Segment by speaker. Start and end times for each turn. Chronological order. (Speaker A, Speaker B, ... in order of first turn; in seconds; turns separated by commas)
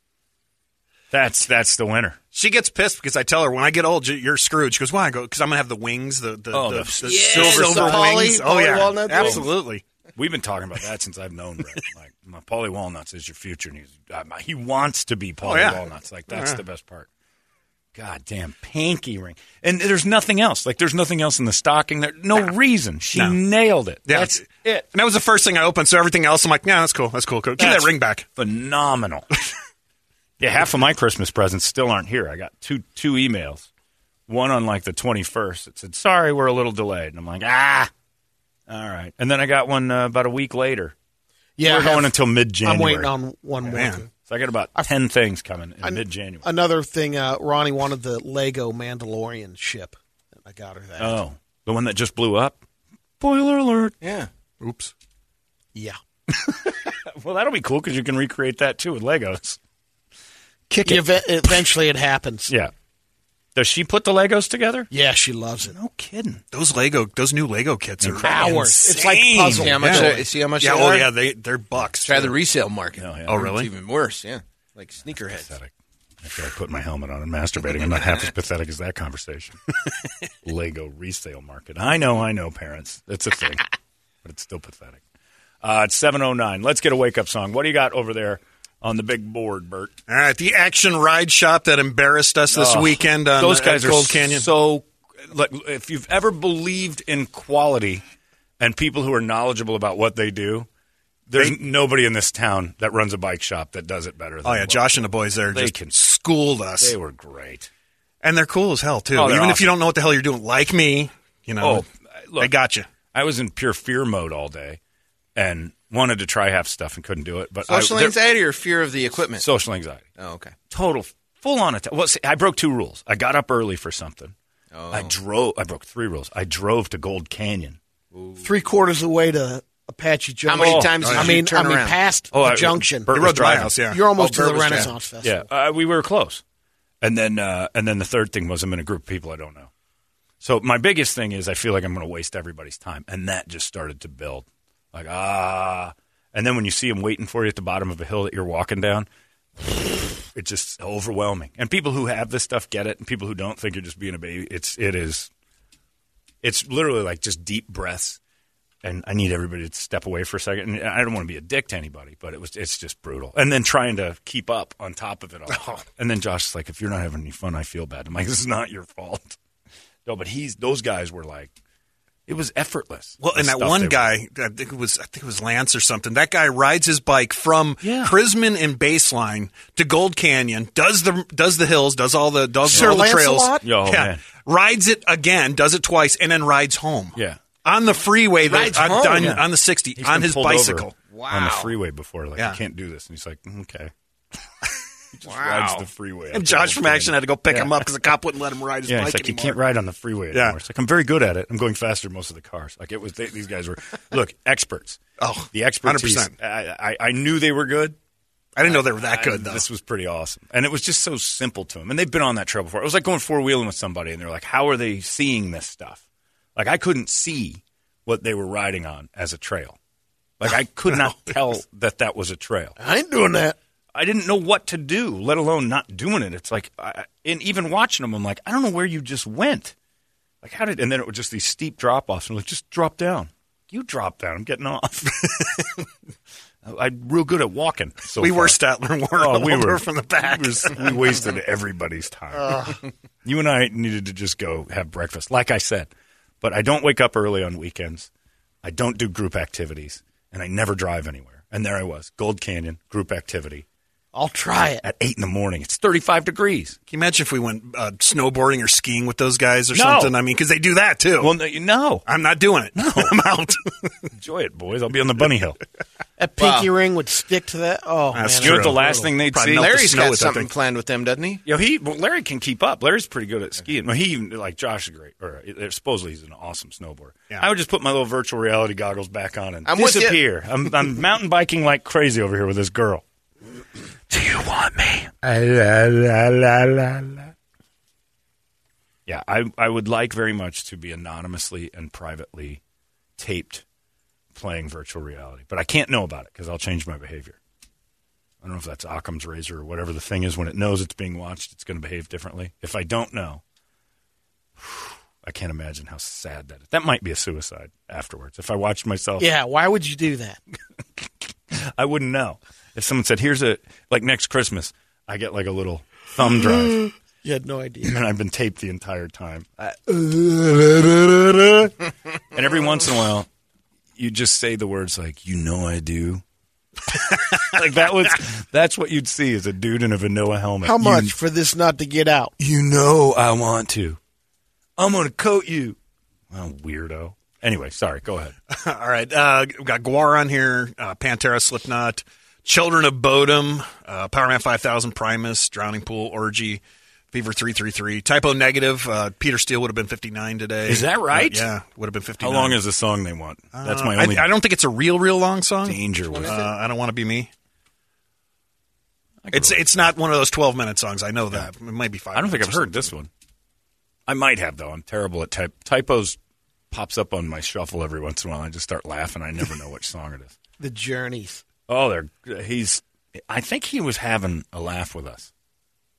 Speaker A: 1.1-2.2, Speaker B: 2.3-9.8, Speaker A: 6.5-8.2, Speaker C: 7.0-9.5, Speaker A: 9.1-9.5, Speaker A: 10.2-17.1, Speaker B: 15.4-16.6, Speaker A: 17.9-24.9, Speaker B: 23.1-23.4, Speaker B: 24.1-28.3, Speaker A: 27.6-29.3, Speaker A: 30.4-33.7, Speaker A: 34.3-37.9, Speaker A: 38.7-40.9, Speaker D: 41.6-44.1, Speaker A: 41.6-43.1, Speaker B: 43.6-44.1, Speaker A: 44.1-46.5, Speaker D: 45.8-51.2, Speaker A: 51.0-52.6, Speaker A: 53.2-53.9, Speaker C: 54.0-54.3, Speaker B: 54.6-54.9, Speaker A: 56.3-59.6, Speaker A: 60.7-61.6, Speaker D: 60.8-62.5, Speaker A: 63.5-64.9, Speaker D: 64.9-65.8, Speaker A: 65.6-66.4, Speaker B: 66.5-72.4, Speaker A: 68.0-69.7, Speaker D: 68.2-70.2, Speaker C: 69.5-71.1, Speaker C: 72.0-75.5, Speaker A: 73.0-73.5, Speaker B: 73.2-73.7, Speaker A: 75.1-75.7, Speaker A: 76.2-79.6, Speaker A: 80.4-83.6, Speaker A: 84.2-85.0, Speaker A: 85.6-89.9, Speaker B: 90.1-94.5, Speaker A: 92.5-98.0, Speaker A: 98.6-100.7, Speaker A: 101.3-106.1, Speaker B: 104.4-107.0, Speaker A: 106.8-107.7, Speaker B: 108.2-112.9, Speaker A: 109.1-109.8, Speaker A: 111.6-114.8, Speaker A: 115.3-118.2, Speaker C: 117.7-119.5, Speaker A: 119.4-120.0, Speaker C: 120.2-120.5, Speaker A: 120.7-124.3, Speaker C: 124.7-125.1, Speaker A: 124.9-127.8, Speaker C: 128.1-128.5, Speaker D: 128.4-133.1, Speaker C: 130.4-132.0, Speaker A: 130.5-131.2, Speaker B: 131.0-131.4, Speaker A: 132.3-133.8, Speaker B: 133.1-134.9, Speaker D: 133.9-135.5, Speaker C: 134.1-134.9, Speaker A: 135.2-136.4, Speaker A: 137.0-139.7, Speaker A: 140.4-149.1, Speaker A: 149.6-155.3, Speaker A: 156.4-158.2, Speaker A: 158.8-169.4, Speaker A: 170.0-171.5, Speaker A: 172.3-174.1, Speaker B: 173.2-190.9, Speaker A: 177.8-178.2, Speaker D: 182.7-183.6, Speaker A: 182.7-183.0, Speaker A: 183.6-184.2, Speaker A: 187.1-187.4, Speaker C: 188.5-189.4, Speaker A: 188.8-193.9, Speaker C: 191.1-191.7, Speaker B: 192.3-192.6, Speaker A: 195.1-197.9, Speaker C: 195.2-195.8, Speaker B: 196.3-199.6, Speaker A: 198.8-205.0, Speaker B: 200.3-200.6, Speaker B: 205.2-206.3, Speaker A: 205.5-207.9, Speaker B: 208.6-209.7, Speaker A: 208.6-216.0, Speaker A: 216.6-219.8, Speaker A: 220.4-222.8, Speaker D: 222.8-223.6, Speaker A: 223.9-229.7, Speaker A: 230.4-235.5, Speaker A: 236.6-238.6, Speaker B: 238.2-241.3, Speaker A: 239.2-245.9, Speaker A: 246.4-248.1, Speaker A: 248.6-253.6, Speaker D: 254.1-254.8, Speaker A: 254.8-256.8, Speaker B: 256.9-261.4, Speaker A: 259.7-260.2, Speaker A: 261.2-262.1, Speaker B: 262.1-263.9, Speaker A: 262.7-263.1, Speaker A: 264.2-265.6, Speaker D: 266.2-269.1, Speaker C: 266.4-266.7, Speaker B: 268.1-270.5, Speaker A: 268.4-269.7, Speaker C: 269.5-271.4, Speaker A: 271.4-283.0, Speaker C: 279.6-280.2, Speaker A: 284.1-287.3, Speaker A: 289.1-292.6, Speaker A: 293.2-293.6, Speaker A: 294.3-297.4, Speaker A: 298.4-303.4, Speaker A: 304.6-309.3, Speaker D: 309.2-310.4, Speaker A: 311.0-316.8, Speaker D: 316.6-317.9, Speaker A: 317.8-321.8, Speaker A: 322.3-323.3, Speaker A: 323.9-326.2, Speaker A: 326.9-331.1, Speaker D: 330.6-332.3, Speaker A: 332.4-334.0, Speaker A: 334.8-335.8, Speaker A: 336.3-338.3, Speaker B: 338.5-352.6, Speaker A: 350.7-351.5, Speaker A: 352.2-354.3, Speaker B: 353.5-357.3, Speaker A: 355.6-356.4, Speaker C: 356.1-356.5, Speaker A: 359.2-359.9, Speaker B: 359.3-362.9, Speaker A: 362.1-363.1, Speaker A: 364.1-366.2, Speaker A: 366.7-370.3, Speaker D: 370.6-371.4, Speaker A: 371.7-375.3